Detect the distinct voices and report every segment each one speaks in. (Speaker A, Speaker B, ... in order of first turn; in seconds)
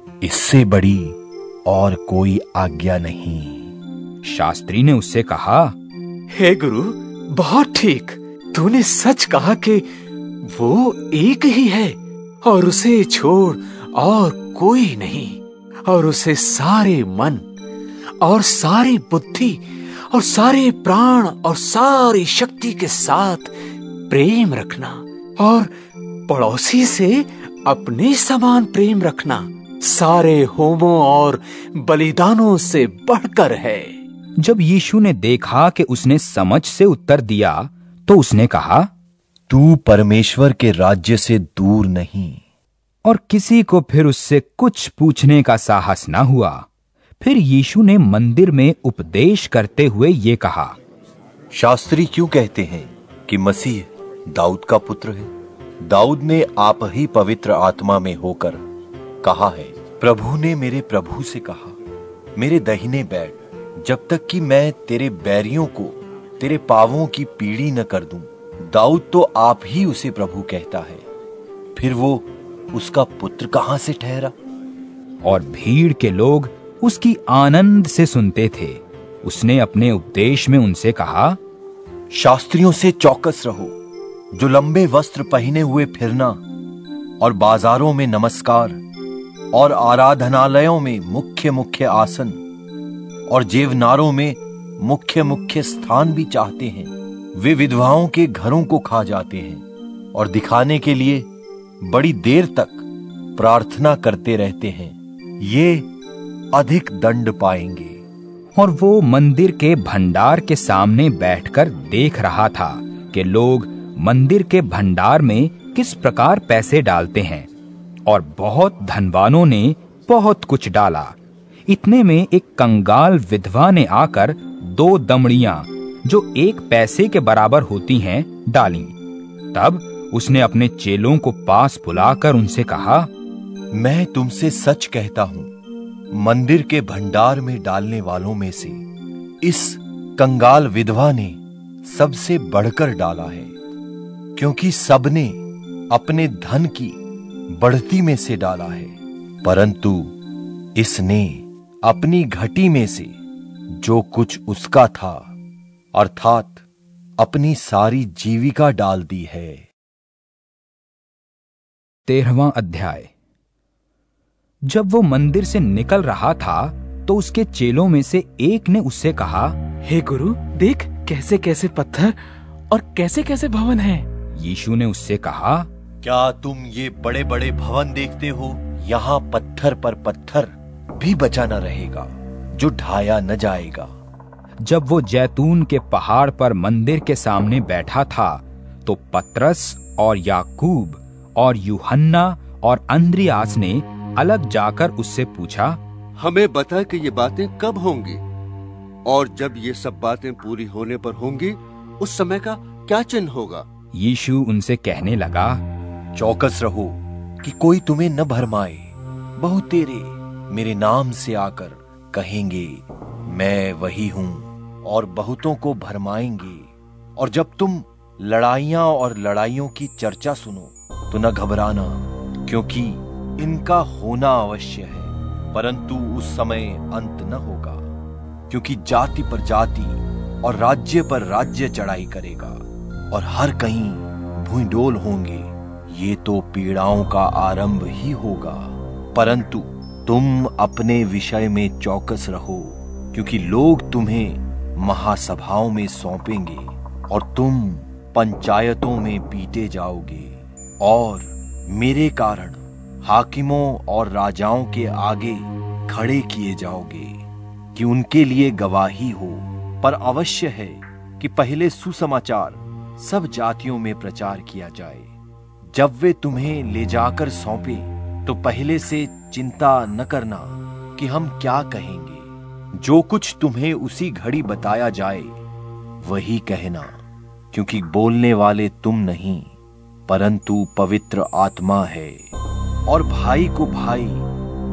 Speaker A: 0.2-3.7, 39.5-42.4, 51.5-55.3, 55.8-58.6, 59.2-61.8, 62.4-71.0, 71.7-74.3, 82.1-83.8, 84.3-86.4, 87.2-88.8, 89.5-92.4, 93.3-101.3, 101.8-102.8, 103.3-105.9, 106.5-108.0, 133.7-135.5, 136.1-138.8, 139.4-143.5, 144.3-145.4, 145.9-147.0, 147.5-150.1, 150.7-153.1, 153.8-155.3, 155.9-156.6, 157.2-159.7, 176.0-183.9, 206.1-227.8, 228.5-257.2, 257.7-265.1, 265.7-275.4, 276.0-277.0, 277.5-279.5, 280.1-282.3, 282.9-284.2
Speaker B: 4.2-5.8, 34.4-38.9, 43.0-46.7, 47.2-50.8, 75.2-81.4, 108.5-117.5, 118.1-121.2, 121.7-128.9, 129.5-133.1, 162.1-163.1, 164.7-169.6, 174.3-175.7, 184.6-195.8, 203.9-205.6
Speaker C: 6.3-9.8, 10.5-17.4, 18.2-23.5, 24.1-25.7, 26.3-33.9
Speaker D: 169.8-172.2, 172.7-174.1
Speaker E: 196.2-198.2, 199.1-203.7